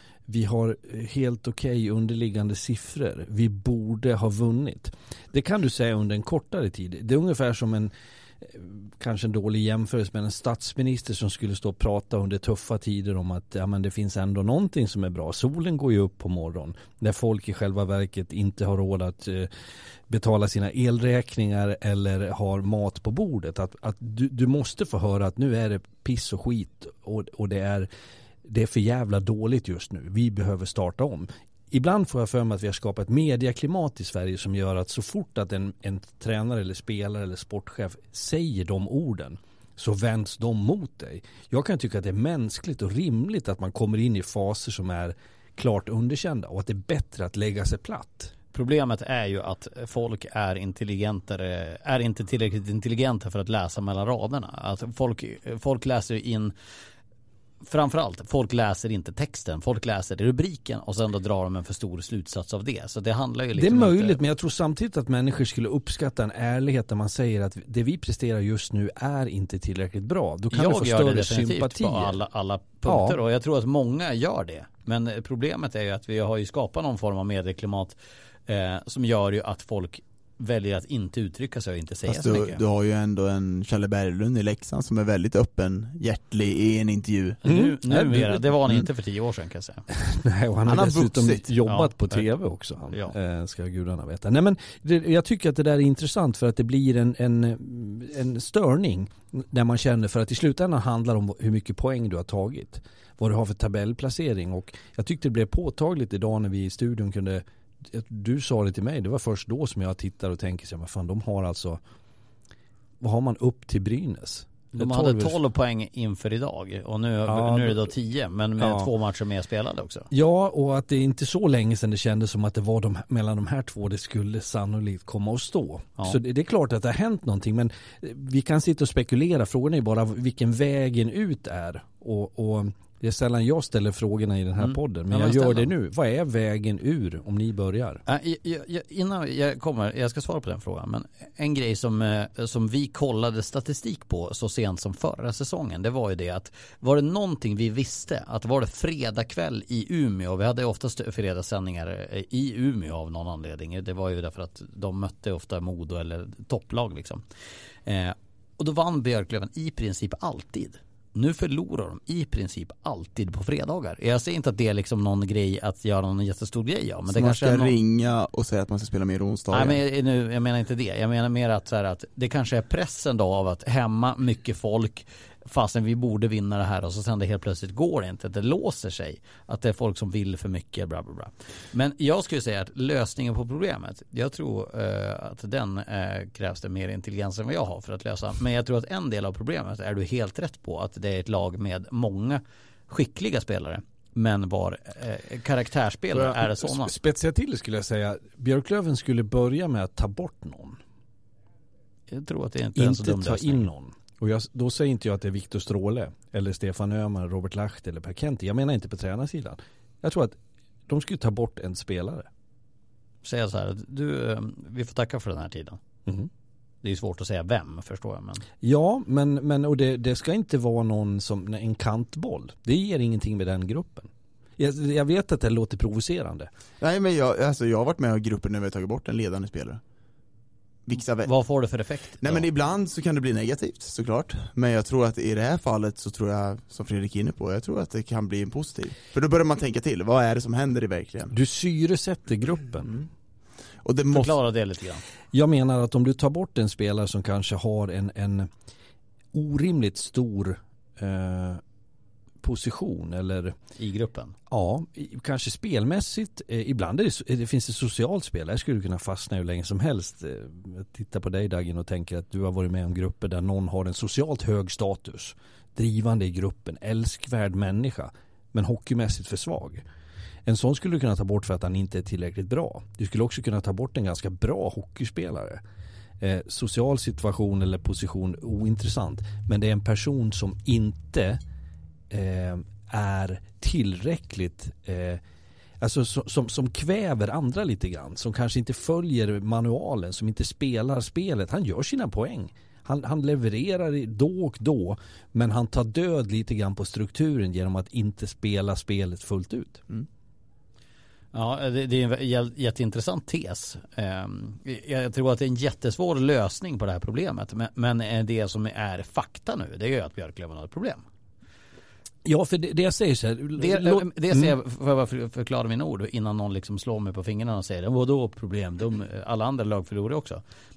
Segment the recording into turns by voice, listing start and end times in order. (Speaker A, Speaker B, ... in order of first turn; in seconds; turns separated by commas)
Speaker A: 0.3-19.5, Speaker A: 20.1-27.9, Speaker A: 28.4-48.3, Speaker B: 48.5-56.5, Speaker B: 57.6-64.2, Speaker A: 63.5-72.2, Speaker B: 70.5-82.6, Speaker A: 72.9-73.2, Speaker C: 82.1-87.4, Speaker B: 87.4-89.8, Speaker A: 87.5-88.8, Speaker A: 89.9-111.8, Speaker C: 90.7-91.5, Speaker B: 91.7-92.2, Speaker A: 113.0-115.4, Speaker B: 114.8-120.1, Speaker A: 117.3-117.9, Speaker A: 118.6-118.9, Speaker A: 120.1-138.0, Speaker B: 134.6-135.7, Speaker B: 138.1-157.2, Speaker B: 157.9-167.8, Speaker C: 167.1-169.8, Speaker B: 169.5-196.9, Speaker A: 196.1-200.8, Speaker B: 202.1-203.6, Speaker A: 202.8-210.4, Speaker A: 210.9-212.3, Speaker B: 213.2-215.8, Speaker B: 216.8-218.4, Speaker A: 218.6-226.5, Speaker C: 226.8-229.8, Speaker C: 230.9-231.3, Speaker B: 231.2-232.5, Speaker C: 232.2-241.3, Speaker A: 241.3-243.1, Speaker C: 243.8-244.4, Speaker B: 244.1-245.0, Speaker A: 245.3-248.5, Speaker A: 249.3-251.6, Speaker A: 252.4-253.6, Speaker B: 253.8-254.3, Speaker A: 254.5-269.8, Speaker A: 270.5-275.6, Speaker A: 276.2-281.4, Speaker A: 282.1-285.2, Speaker A: 285.8-299.8, Speaker B: 301.3-311.0, Speaker A: 312.2-314.5, Speaker B: 313.6-320.4